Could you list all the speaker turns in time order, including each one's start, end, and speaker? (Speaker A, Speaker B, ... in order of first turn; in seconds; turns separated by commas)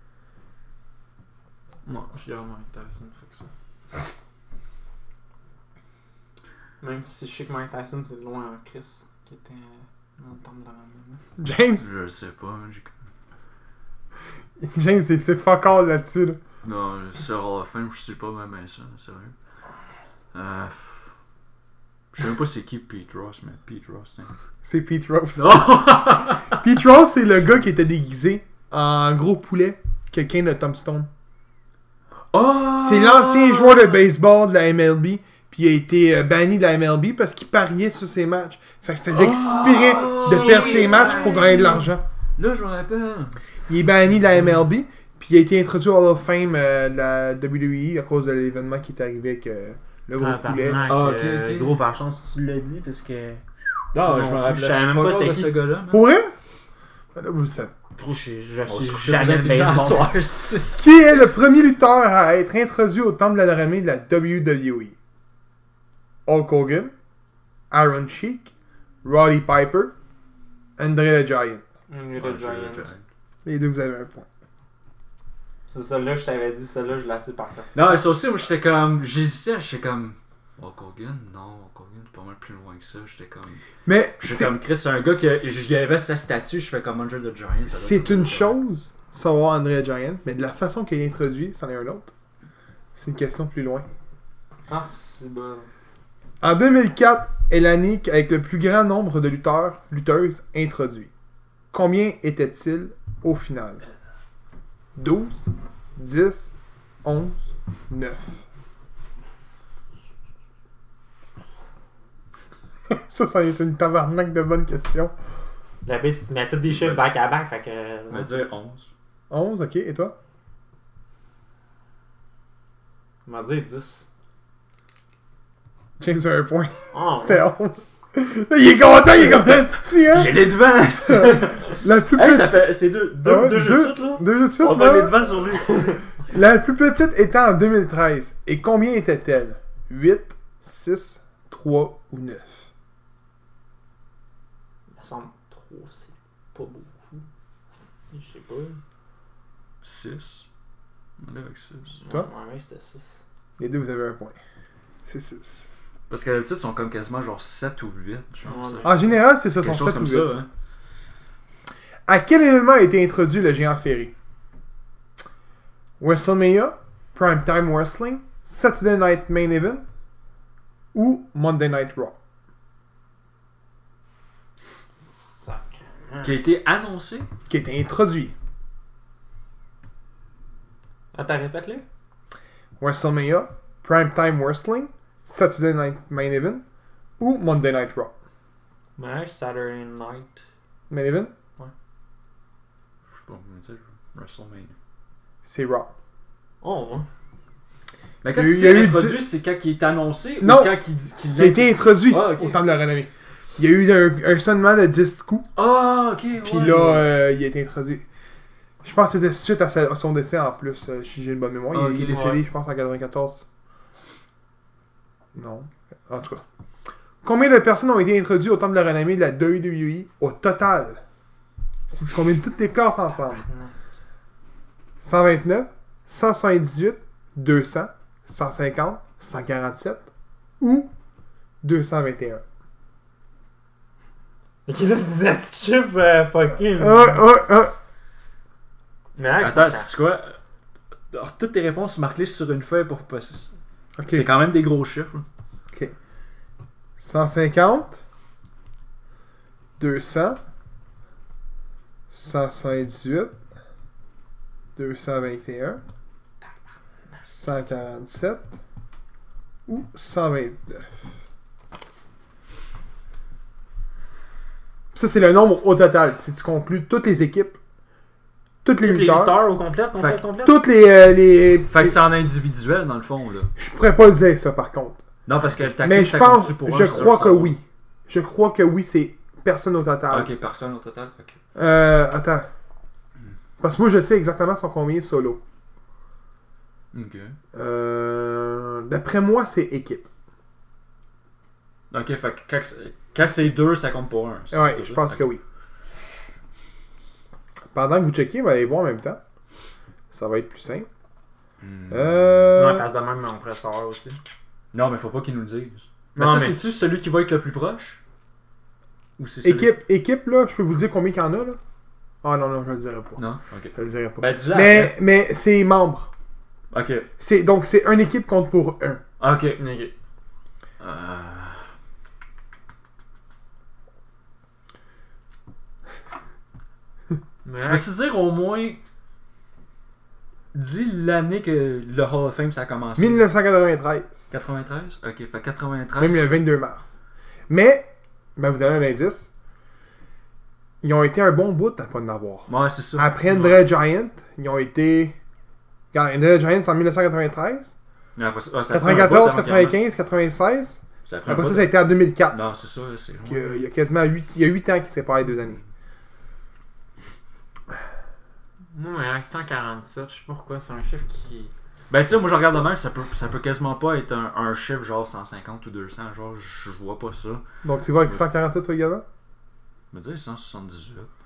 Speaker A: 1.9-3.5, Speaker A: 6.8-11.2, Speaker B: 11.4-11.9, Speaker C: 11.8-12.9, Speaker B: 14.6-16.4, Speaker C: 16.6-19.3, Speaker C: 20.3-21.0, Speaker C: 22.2-24.3, Speaker B: 24.6-26.0, Speaker C: 25.4-26.6, Speaker B: 26.5-31.1, Speaker C: 32.3-34.0, Speaker B: 32.8-42.0, Speaker C: 39.1-43.4, Speaker A: 39.7-41.8, Speaker B: 43.7-50.9, Speaker A: 50.2-53.4, Speaker C: 50.9-51.8, Speaker C: 53.9-56.1, Speaker A: 54.0-55.5, Speaker B: 55.9-56.3, Speaker B: 57.1-57.7, Speaker A: 58.0-60.7, Speaker C: 58.7-60.6, Speaker B: 60.8-65.0, Speaker B: 66.3-66.9, Speaker B: 67.7-68.5, Speaker B: 69.0-69.9, Speaker B: 70.8-71.6, Speaker A: 71.9-72.9, Speaker C: 72.2-73.0, Speaker B: 73.5-74.3, Speaker A: 75.7-77.7, Speaker C: 77.8-83.6, Speaker B: 83.9-84.6, Speaker C: 84.2-88.5, Speaker B: 87.7-92.1, Speaker B: 93.0-93.9, Speaker A: 94.7-95.7, Speaker B: 96.4-101.1, Speaker B: 101.7-103.8, Speaker B: 105.0-108.4, Speaker B: 112.9-115.1, Speaker A: 115.8-118.4, Speaker C: 116.7-117.1, Speaker C: 118.1-118.9, Speaker B: 119.3-120.1, Speaker A: 123.3-124.1, Speaker B: 126.0-130.5, Speaker A: 126.9-127.5, Speaker C: 129.9-136.0, Speaker B: 131.1-135.2, Speaker A: 135.7-136.0, Speaker B: 136.3-142.7, Speaker A: 145.0-147.2, Speaker A: 147.9-148.8, Speaker C: 149.8-150.4, Speaker C: 151.2-152.0, Speaker A: 152.0-153.2, Speaker B: 153.6-154.4, Speaker B: 155.1-155.7, Speaker C: 156.1-160.5, Speaker A: 158.4-159.2, Speaker B: 158.8-160.4, Speaker B: 162.1-164.1, Speaker B: 166.0-169.8, Speaker B: 170.9-172.2, Speaker A: 175.2-176.4, Speaker C: 176.2-177.3, Speaker B: 177.5-178.3, Speaker A: 181.1-181.8, Speaker B: 182.8-186.6, Speaker B: 187.2-188.1, Speaker A: 189.0-190.4, Speaker B: 190.9-191.3, Speaker C: 193.2-194.7, Speaker B: 195.4-195.9, Speaker A: 196.6-197.1, Speaker C: 198.2-202.6, Speaker B: 198.3-199.2, Speaker B: 200.4-200.7, Speaker B: 201.3-205.5, Speaker C: 205.6-207.1, Speaker B: 206.4-208.1, Speaker B: 208.8-213.4, Speaker A: 211.7-212.4, Speaker B: 215.3-216.4, Speaker B: 217.2-221.0, Speaker B: 221.9-223.4, Speaker A: 223.3-223.7, Speaker B: 225.0-230.1, Speaker B: 230.6-230.9, Speaker B: 231.6-232.4, Speaker A: 234.7-237.2, Speaker B: 236.8-237.8, Speaker A: 239.2-239.9, Speaker C: 239.4-240.4, Speaker C: 241.1-243.5, Speaker B: 244.0-244.3, Speaker C: 244.1-245.3, Speaker B: 247.0-248.0, Speaker B: 249.8-250.4, Speaker B: 252.1-253.4, Speaker B: 254.8-255.8, Speaker B: 257.2-258.5, Speaker B: 259.7-260.9, Speaker B: 264.9-267.6, Speaker B: 268.6-269.4, Speaker A: 268.8-270.6, Speaker C: 270.0-270.2, Speaker B: 270.4-272.0, Speaker C: 271.7-273.5, Speaker B: 273.6-275.0, Speaker C: 275.3-277.6, Speaker B: 275.8-280.3, Speaker C: 280.1-281.4, Speaker B: 281.6-282.5, Speaker B: 283.6-285.4, Speaker C: 286.9-287.4, Speaker B: 287.5-290.1, Speaker C: 291.9-295.3, Speaker B: 294.5-295.4, Speaker B: 297.7-299.2, Speaker B: 300.1-300.9, Speaker C: 301.6-302.6, Speaker B: 301.9-302.9, Speaker A: 302.6-304.2, Speaker C: 304.7-308.0, Speaker A: 306.2-306.6, Speaker C: 309.2-309.7, Speaker B: 309.4-311.6, Speaker B: 312.2-313.2, Speaker C: 313.2-315.0, Speaker B: 313.8-316.1, Speaker C: 316.7-317.1, Speaker B: 317.2-319.0, Speaker C: 319.2-319.6, Speaker A: 319.6-319.9, Speaker C: 320.8-321.6, Speaker A: 327.4-327.9, Speaker C: 327.6-328.8, Speaker C: 330.5-333.2, Speaker B: 333.0-334.2, Speaker C: 334.3-336.2, Speaker B: 336.0-336.9, Speaker B: 337.5-337.9, Speaker B: 338.4-339.3, Speaker B: 340.8-345.2, Speaker C: 342.5-343.7, Speaker B: 345.9-347.7, Speaker C: 348.2-349.8, Speaker B: 348.7-352.4, Speaker C: 351.1-353.5, Speaker B: 353.3-355.6, Speaker A: 358.7-361.5, Speaker C: 361.9-367.4, Speaker B: 367.6-369.0, Speaker C: 369.9-371.1